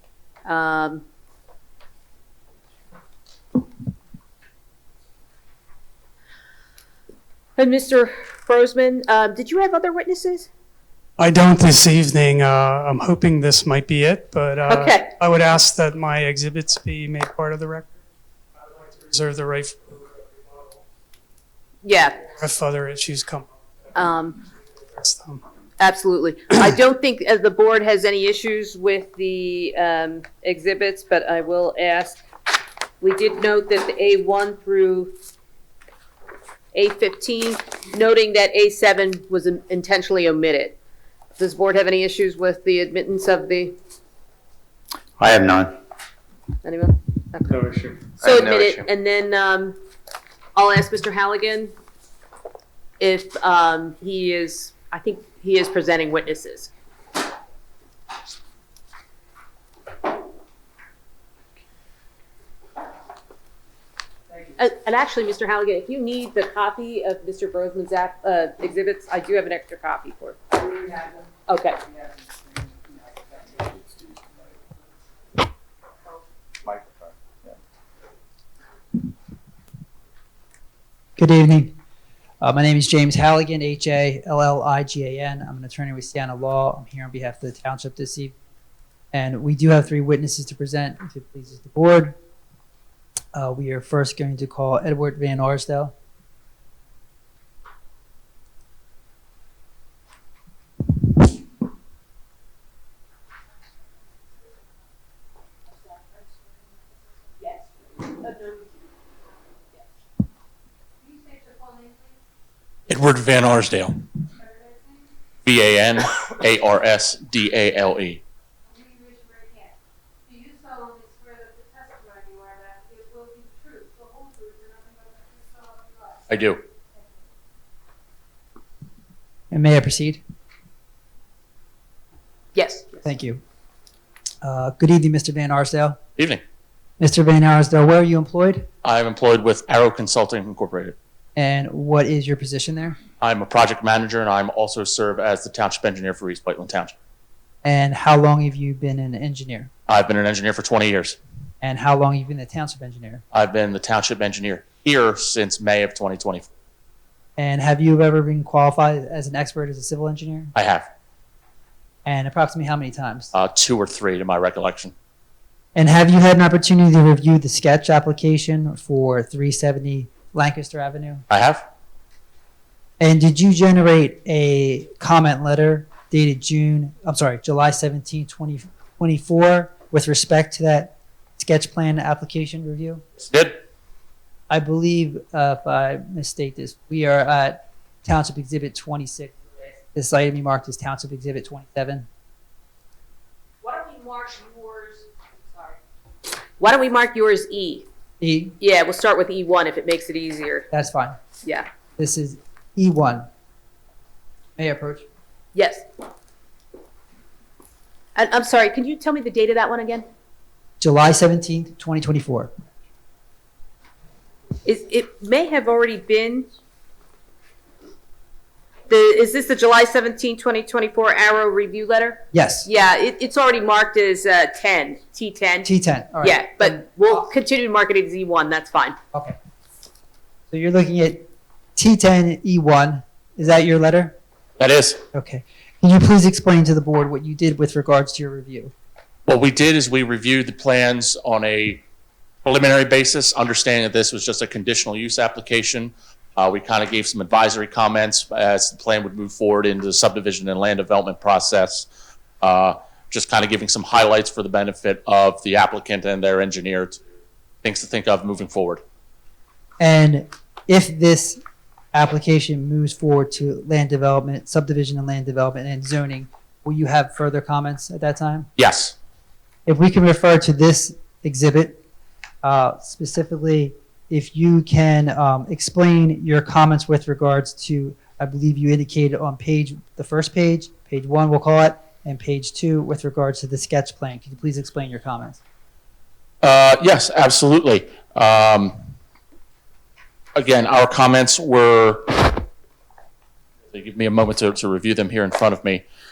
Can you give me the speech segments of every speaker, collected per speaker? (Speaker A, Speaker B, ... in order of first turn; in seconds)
Speaker A: 0.5-1.0, 7.6-10.5, 14.7-15.1, 21.8-22.3, 23.9-24.4, 25.8-32.2, 33.0-35.2, 36.7-40.8, 41.4-43.8, 46.6-49.8, 50.6-51.7, 53.0-56.7, 64.6-70.6, 71.5-71.8, 107.4-108.7, 132.6-133.0, 193.6-195.8, 196.6-197.9, 198.6-200.7, 205.6-205.8, 208.2-210.1, 214.7-216.5, 218.9-225.7, 226.2-229.0
Speaker B: 11.2-18.0, 18.6-20.8, 22.3-23.5, 24.9-25.4
Speaker C: 45.2-45.8, 47.5-48.9, 76.7-77.2
Speaker D: 81.2-81.8, 82.4-88.3, 89.1-92.2, 93.3-95.9, 129.5-130.2, 133.0-133.4, 134.4-136.0, 137.0-138.7, 141.4-143.0, 147.6-149.7, 151.6-153.2, 157.4-160.5, 162.1-163.3, 165.8-171.2, 173.0-183.0, 184.5-192.1, 198.2-198.6, 200.7-201.2, 202.0-203.3, 204.6-205.1, 210.8-212.5, 222.3-222.7, 225.7-227.1, 230.5-234.2, 235.1-238.7, 259.8-261.4, 261.9-268.5, 269.7-271.8, 272.4-285.4
Speaker E: 111.1-112.0, 118.8-119.7, 120.3-126.2
Speaker F: 112.9-114.0, 115.5-118.2, 126.3-126.6, 136.2-136.4, 138.8-140.9, 143.2-146.9, 149.9-151.2, 153.3-156.5, 160.6-160.9, 163.3-164.9, 171.3-171.7, 183.2-183.6, 234.6-235.0, 239.3-241.8, 242.4-251.9, 252.4-257.0, 257.6-258.8, 268.6-268.9, 286.4-288.8, 290.4-292.4, 293.7-295.9